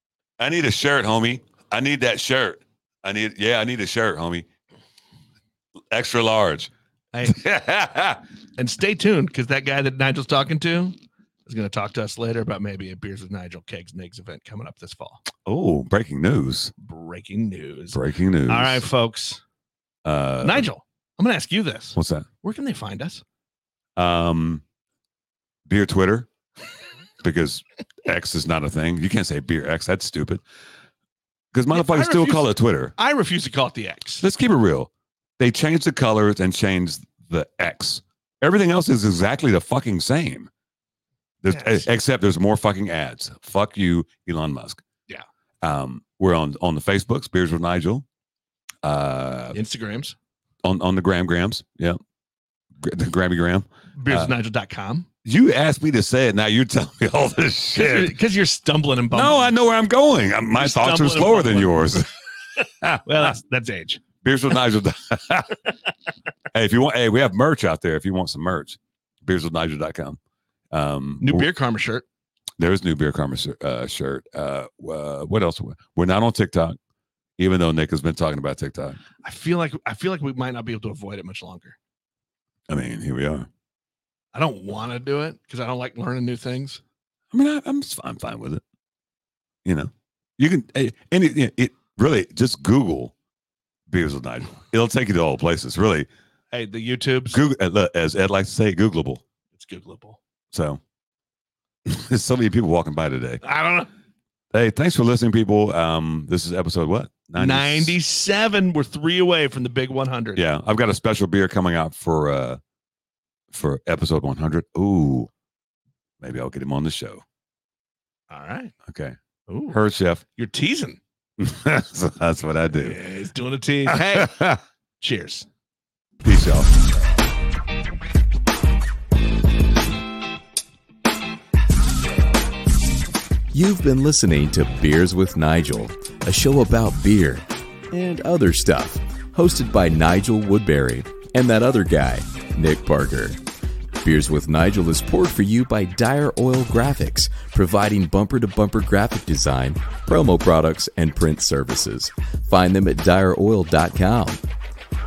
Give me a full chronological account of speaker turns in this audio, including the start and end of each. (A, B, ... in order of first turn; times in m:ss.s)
0:00.4-0:04.5 A
0:05.9-0:06.7 A
0:07.1-0:07.4 B
0:07.2-0:08.2 A
0:08.6-0:15.2 B
0:15.4-0:16.7 A
0:16.8-0:19.4 B
0:17.9-0:18.9 A
0:20.0-0:20.7 A
0:20.4-0:23.2 B
0:22.0-0:22.3 A
0:24.0-0:24.6 A
0:25.7-0:26.3 A
0:27.2-0:30.4 A
0:31.5-0:32.9 A
0:31.7-0:34.2 B
0:34.2-0:40.5 A
0:41.4-0:44.8 A
0:41.5-0:41.8 B
0:45.6-0:48.0 A
0:48.8-0:49.6 A
0:49.5-0:50.2 B
0:50.6-0:52.0 A
0:52.8-0:54.3 A
0:54.0-0:55.1 B
0:55.2-0:58.1 A
0:57.8-0:59.5 B
0:59.1-1:03.4 A
1:00.6-1:01.8 B
1:03.0-1:04.0 B
1:04.2-1:05.6 A
1:06.5-1:10.2 A
1:10.7-1:11.5 A
1:11.2-1:12.0 B
1:12.6-1:16.8 A
1:17.4-1:19.0 A
1:19.2-1:21.8 B
1:22.7-1:23.5 A
1:24.3-1:26.8 B
1:27.3-1:28.6 A
1:29.6-1:33.1 A
1:33.9-1:36.1 A
1:36.5-1:37.4 B
1:37.3-1:39.2 A
1:39.6-1:40.2 B
1:40.5-1:40.8 A
1:41.9-1:43.4 A
1:43.4-1:43.9 B
1:44.5-1:48.0 A
1:47.4-1:50.4 B
1:50.4-1:52.6 A
1:53.5-1:55.3 A
1:56.2-1:57.2 A
1:58.3-1:58.7 B
1:58.9-1:59.2 A
1:59.5-1:59.8 B
1:59.7-2:00.2 A
2:00.4-2:01.0 B
2:01.4-2:03.0 A
2:02.7-2:05.5 B
2:03.9-2:04.6 A
2:06.2-2:06.7 A
2:13.5-2:23.4 C
2:24.0-2:34.4 C